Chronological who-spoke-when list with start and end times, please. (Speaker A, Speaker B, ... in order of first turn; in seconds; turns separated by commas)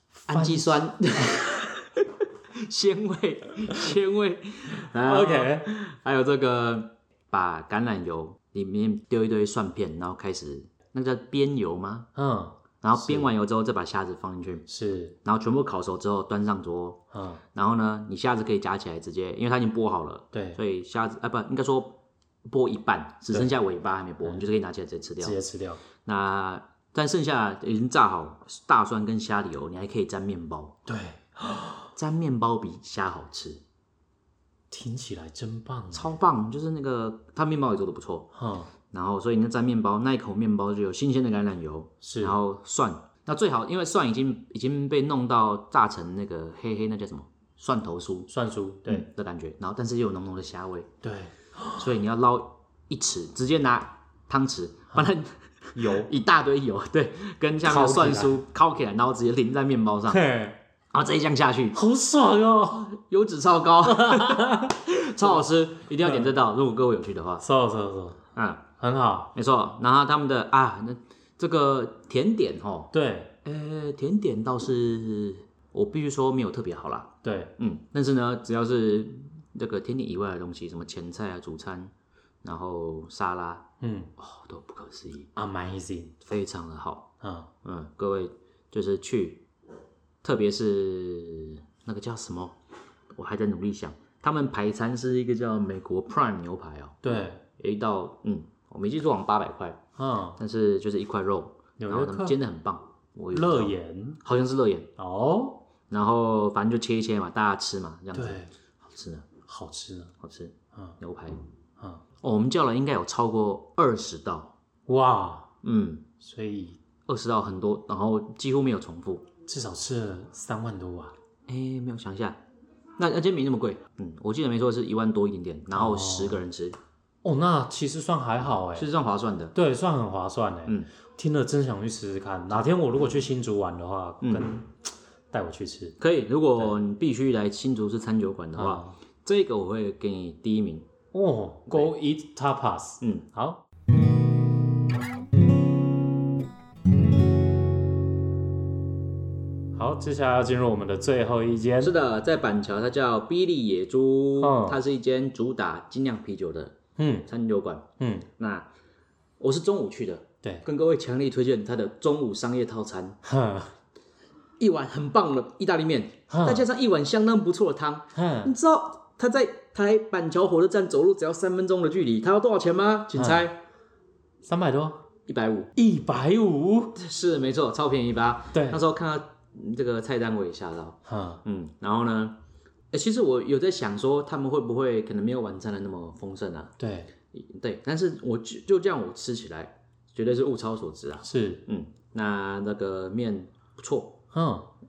Speaker A: 0.2-0.7, Speaker B: 0.3-12.1, Speaker A: 5.0-5.7, Speaker A: 12.1-13.3, Speaker B: 12.8-14.7, Speaker A: 14.7-15.2, Speaker B: 15.2-17.0, Speaker A: 17.1-17.4, Speaker B: 17.5-25.4, Speaker A: 20.3-20.6, Speaker A: 25.2-25.8, Speaker B: 26.0-30.8, Speaker A: 30.9-31.9, Speaker B: 31.9-33.6, Speaker A: 34.7-36.1, Speaker B: 35.9-38.3, Speaker A: 38.3-38.7, Speaker B: 38.9-48.3, Speaker A: 42.0-42.3, Speaker A: 48.3-49.0, Speaker B: 48.9-50.9, Speaker A: 51.0-51.9, Speaker B: 51.8-60.2, Speaker A: 55.8-56.1, Speaker A: 57.6-58.4, Speaker A: 60.1-60.6, Speaker B: 60.9-61.8, Speaker A: 61.7-62.9, Speaker B: 62.9-67.4, Speaker A: 63.8-65.3, Speaker A: 67.4-68.2, Speaker B: 68.3-68.7, Speaker A: 68.8-69.3, Speaker B: 69.3-72.9, Speaker A: 72.9-73.3, Speaker B: 73.4-81.9, Speaker A: 77.2-77.5, Speaker B: 82.4-85.3, Speaker A: 83.8-84.1, Speaker A: 85.3-86.1, Speaker B: 86.2-87.1, Speaker A: 87.2-87.5, Speaker B: 87.6-89.5, Speaker B: 90.2-92.6, Speaker B: 93.1-99.8, Speaker A: 97.0-97.4, Speaker A: 100.0-100.4, Speaker B: 100.4-104.9, Speaker A: 101.8-102.4, Speaker A: 103.3-104.2, Speaker A: 105.0-105.6, Speaker B: 105.9-109.3, Speaker A: 108.1-108.5, Speaker A: 109.5-110.1, Speaker B: 110.2-111.4, Speaker B: 112.2-114.5, Speaker A: 114.9-115.5, Speaker B: 115.6-116.1, Speaker A: 116.2-116.8, Speaker B: 117.1-119.3, Speaker A: 119.5-121.1, Speaker B: 121.5-122.4, Speaker B: 123.0-126.8, Speaker A: 125.7-126.4, Speaker A: 127.2-128.9, Speaker B: 128.7-129.5, Speaker A: 129.5-134.7, Speaker B: 134.2-134.5, Speaker A: 135.3-136.0, Speaker B: 136.0-140.9, Speaker A: 138.6-138.9, Speaker A: 141.1-143.6, Speaker B: 143.0-143.2, Speaker A: 149.7-151.9, Speaker B: 151.8-158.7, Speaker A: 154.4-154.8, Speaker A: 157.0-157.3, Speaker A: 158.0-158.3, Speaker B: 159.4-163.2, Speaker A: 163.2-163.7, Speaker B: 164.6-173.6, Speaker A: 166.3-166.7, Speaker A: 168.1-168.5, Speaker A: 173.1-173.4, Speaker A: 174.4-175.0, Speaker B: 175.3-175.7, Speaker A: 175.8-176.9, Speaker B: 176.9-182.3, Speaker A: 178.5-178.8, Speaker A: 181.1-181.4, Speaker B: 182.9-186.8, Speaker A: 186.8-187.1, Speaker B: 187.3-194.2, Speaker A: 191.2-191.6, Speaker A: 194.3-194.7